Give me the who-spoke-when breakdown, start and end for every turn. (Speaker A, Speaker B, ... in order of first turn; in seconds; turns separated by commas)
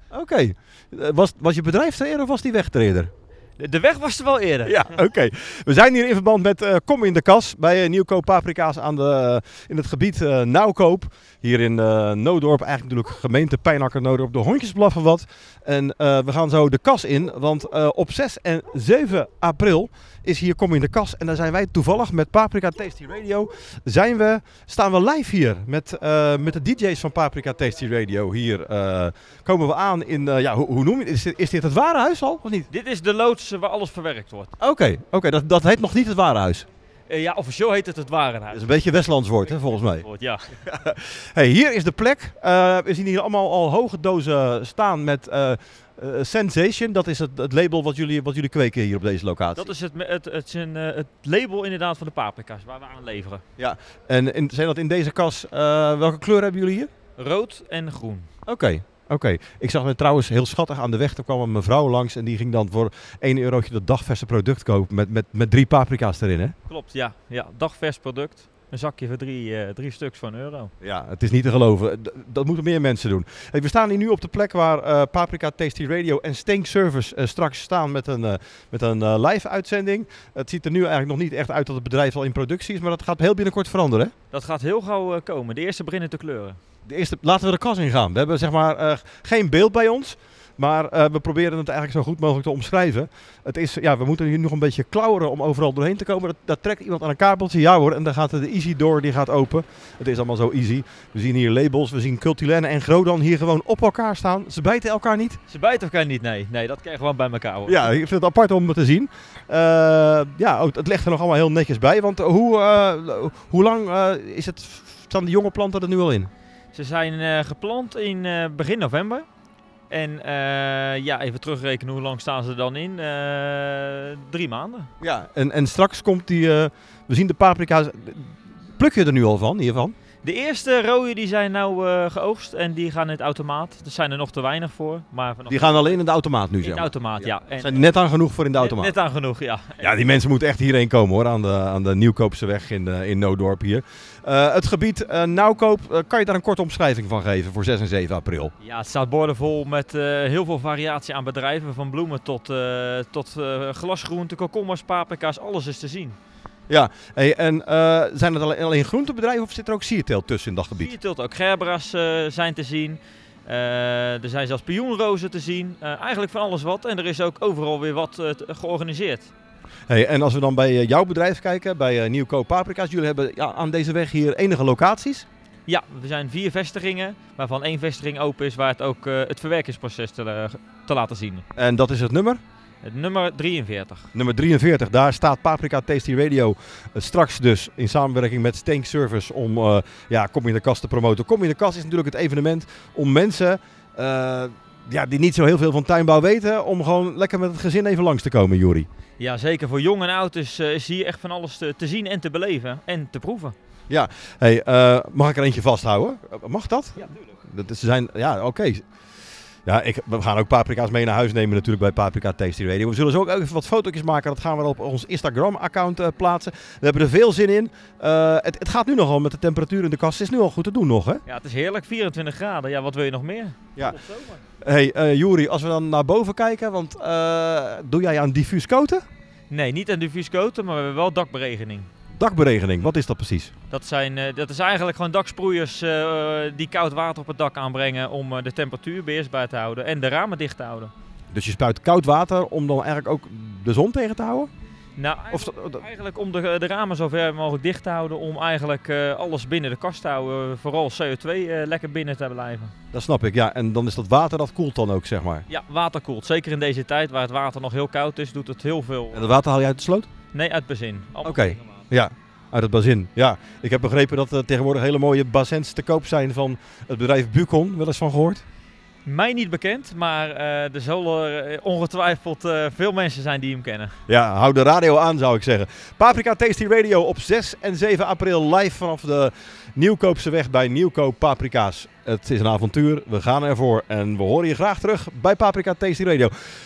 Speaker A: 0.1-3.1, Speaker B: 3.6-4.9, Speaker A: 4.7-32.7, Speaker B: 32.7-34.5, Speaker A: 34.6-36.6, Speaker B: 37.1-38.6, Speaker A: 38.5-40.0, Speaker B: 40.0-40.6, Speaker A: 40.7-49.7, Speaker B: 49.5-53.4, Speaker A: 53.6-56.9, Speaker B: 57.2-58.3, Speaker A: 58.5-66.5, Speaker B: 66.7-70.7, Speaker A: 70.8-84.1, Speaker B: 84.3-86.6, Speaker A: 86.9-105.4, Speaker B: 105.5-107.8, Speaker A: 107.7-116.3, Speaker B: 116.7-119.2, Speaker B: 119.9-124.9, Speaker A: 125.0-129.9, Speaker B: 130.2-135.9, Speaker A: 135.5-138.9, Speaker B: 136.6-137.8, Speaker B: 138.6-139.9, Speaker A: 139.8-148.5, Speaker B: 148.6-156.2, Speaker A: 156.7-160.9, Speaker B: 160.8-169.3, Speaker A: 169.9-175.3, Speaker B: 175.7-181.4, Speaker A: 181.6-182.4, Speaker B: 182.8-184.1, Speaker A: 184.1-198.9, Speaker B: 199.2-203.5, Speaker A: 203.9-208.8, Speaker A: 209.7-221.2, Speaker B: 221.2-224.4, Speaker A: 224.6-229.0, Speaker B: 229.5-231.9, Speaker A: 232.1-233.5, Speaker B: 233.7-240.9, Speaker A: 241.3-244.5, Speaker B: 245.0-252.7, Speaker A: 245.3-245.8, Speaker A: 252.9-255.4, Speaker B: 255.5-259.3, Speaker A: 259.1-260.1, Speaker B: 260.3-261.6, Speaker A: 261.2-268.4, Speaker B: 269.1-273.9, Speaker A: 274.1-286.3